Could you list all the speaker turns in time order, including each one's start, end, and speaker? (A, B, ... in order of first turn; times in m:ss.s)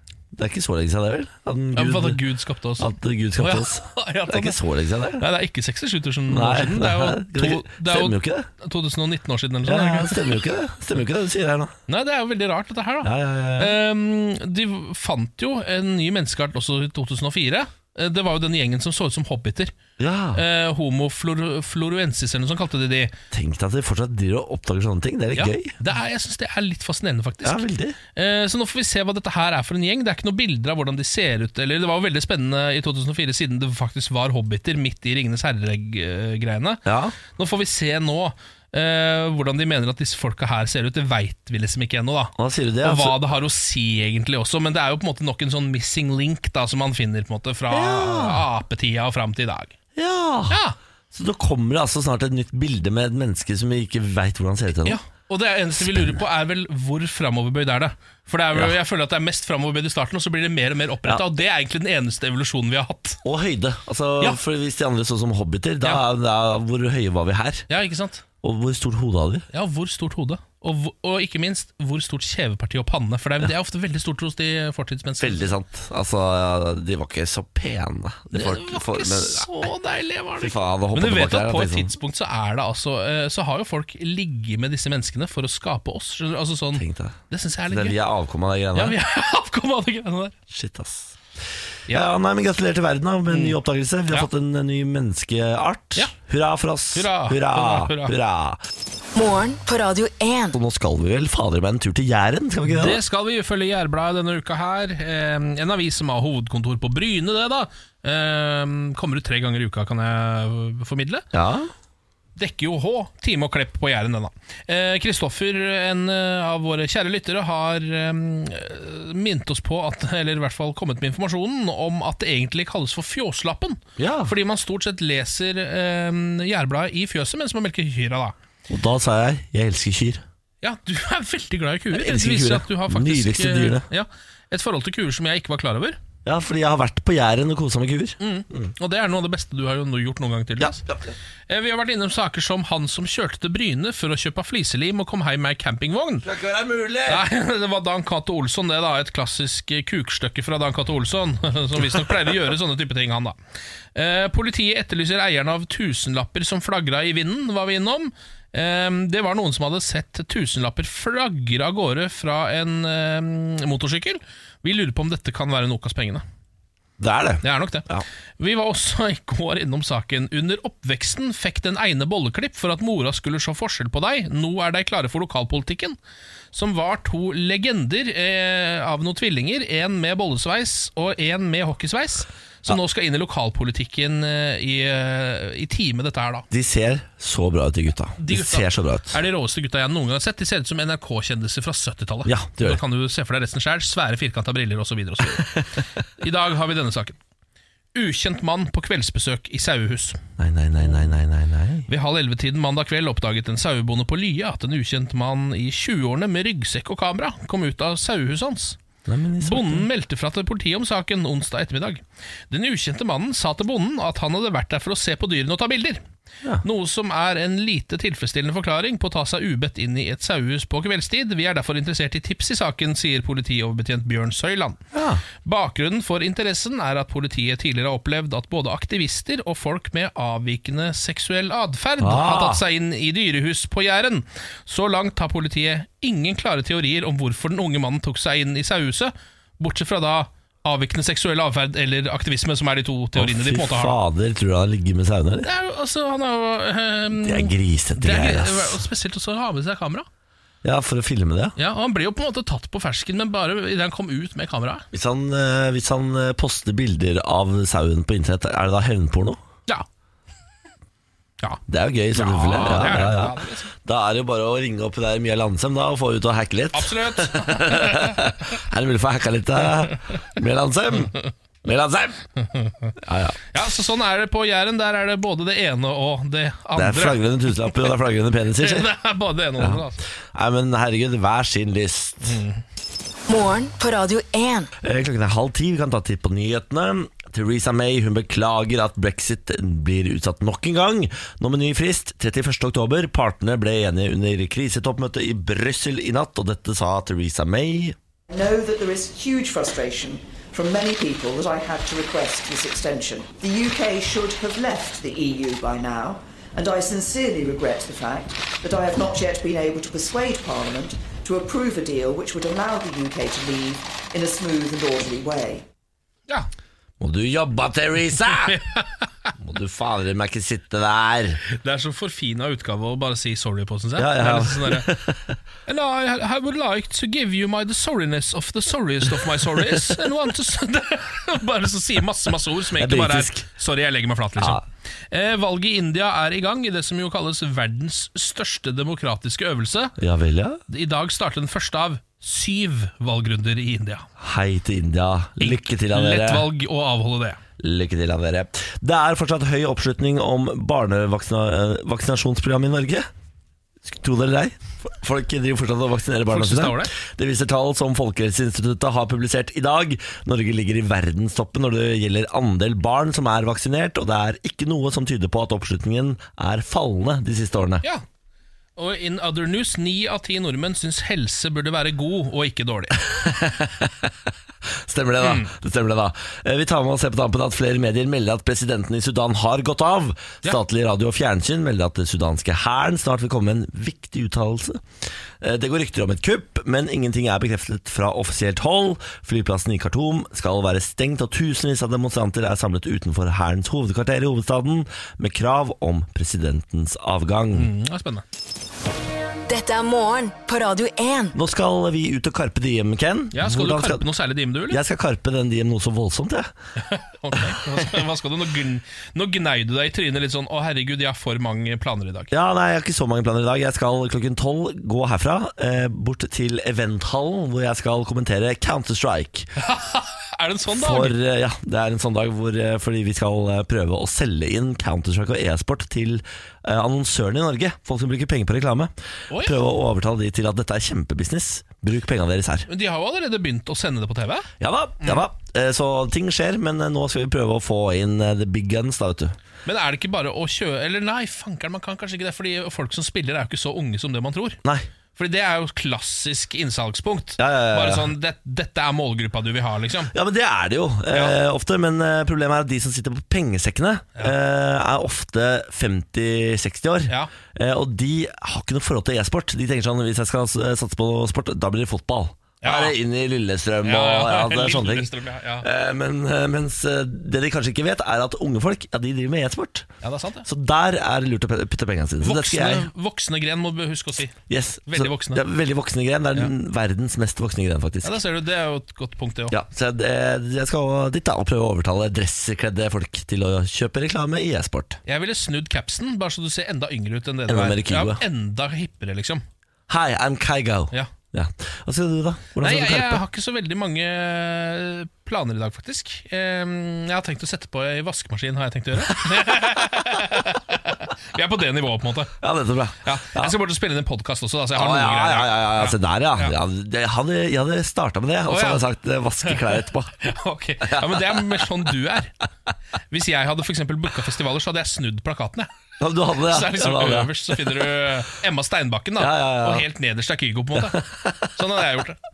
0:00.3-0:02.2 A
0:01.7-0:04.6 B
0:02.8-0:05.2 A
0:05.2-0:10.4 B
0:06.3-0:08.5 A
0:09.6-0:11.7 A
0:11.9-0:19.7 B
0:13.0-0:13.7 A
0:20.0-0:20.4 A
0:20.3-0:23.1 B
0:23.3-0:25.8 A
0:25.3-0:49.7 B
0:27.4-0:28.0 A
0:36.8-0:37.2 A
0:42.4-0:43.2 A
0:47.7-0:48.5 A
0:49.9-0:55.0 A
0:50.5-0:50.8 B
0:54.8-1:03.2 B
0:55.8-0:56.2 A
1:03.2-1:07.7 A
1:07.7-1:08.2 B
1:08.4-1:09.4 A
1:09.5-1:15.5 B
1:15.2-1:19.7 A
1:18.3-1:28.0 B
1:20.4-1:21.9 A
1:26.8-1:29.0 A
1:28.7-1:30.3 B
1:30.5-1:31.2 A
1:31.9-1:38.6 A
1:33.3-1:33.6 B
1:36.9-1:38.1 B
1:39.1-1:40.6 C
1:40.5-1:43.0 A
1:42.7-1:51.2 B
1:51.3-1:51.7 A
1:52.4-2:08.3 B
2:04.0-2:04.3 A
2:08.7-2:10.2 A
2:10.6-2:16.0 B
2:11.9-2:13.9 A
2:16.2-2:18.7 A
2:18.2-2:20.8 B
2:20.6-2:21.1 A
2:21.5-2:26.2 B
2:26.2-2:27.2 A
2:27.0-2:33.4 B
2:33.9-2:46.2 B
2:47.0-2:48.0 A
2:47.4-2:47.8 B
2:48.4-2:56.0 B
2:56.5-3:06.5 B
3:06.5-3:09.2 A
3:08.2-3:15.6 B
3:12.2-3:12.8 A
3:16.2-3:17.2 B
3:17.9-3:20.2 B
3:20.4-3:21.9 A
3:21.9-3:28.8 B
3:29.0-3:29.9 A
3:29.4-3:36.0 B
3:36.6-3:44.8 B
3:44.9-3:45.2 A
3:45.4-4:04.0 B
3:52.0-3:52.6 A
4:03.2-4:05.5 A
4:05.4-4:10.1 B
4:07.1-4:08.8 A
4:10.6-4:11.6 A
4:11.6-4:14.8 B
4:14.9-4:19.4 A
4:21.7-4:32.3 A
4:22.1-4:23.7 B
4:26.7-4:28.2 B
4:32.5-4:32.9 B
4:33.0-4:33.4 A
4:33.5-4:37.8 B
4:36.8-4:38.9 A
4:38.6-4:40.0 B
4:39.6-4:42.4 A
4:42.2-4:42.6 B
4:43.3-4:44.7 C
4:44.8-4:58.0 A
4:58.3-5:15.6 D
5:17.0-5:18.6 A
5:18.5-5:19.3 B
5:19.4-5:21.4 A
5:21.4-5:24.9 B
5:24.0-5:25.4 A
5:25.6-5:40.0 B
5:29.6-5:29.9 A
5:32.7-5:33.4 A
5:34.4-5:34.6 A
5:40.0-5:40.6 A
5:40.7-5:44.0 B
5:44.2-5:46.5 A
5:45.4-5:47.4 B
5:47.6-5:53.1 A
5:53.8-6:07.8 A
5:56.3-5:56.9 B
6:08.8-6:13.0 B
6:13.0-6:14.1 A
6:14.7-6:24.8 A
6:15.2-6:15.5 B
6:25.4-6:37.7 A
6:37.5-6:38.2 B
6:39.5-6:41.4 C
6:41.3-6:44.1 A
6:43.3-6:44.8 B
6:44.7-6:46.5 A
6:46.8-6:52.3 B
6:47.3-6:48.0 A
6:52.3-6:59.5 A
6:59.6-7:01.1 B
7:00.7-7:12.7 A
7:09.3-7:09.6 B
7:12.7-7:14.5 B
7:14.6-7:19.4 A
7:19.6-7:24.6 B
7:25.2-7:30.1 B
7:27.4-7:28.1 A
7:30.1-7:49.9 A
7:42.6-7:43.0 B
7:43.8-7:45.6 B
7:50.0-7:50.5 B
7:50.4-7:52.9 A
7:52.2-7:54.4 B
7:54.5-7:58.2 A
7:54.9-7:55.4 B
7:58.0-7:59.6 B
7:59.5-8:05.0 A
8:05.0-8:09.4 B
8:07.5-8:08.2 A
8:09.9-8:13.2 A
8:12.6-8:22.3 B
8:19.1-8:19.7 A
8:22.4-8:23.6 A
8:23.0-8:26.5 B
8:24.7-8:30.1 A
8:28.5-8:28.8 B
8:29.4-8:32.3 B
8:30.8-8:31.6 A
8:33.1-8:35.7 B
8:36.0-8:38.0 A
8:36.4-8:42.2 B
8:39.2-8:39.9 A
8:40.8-8:41.5 A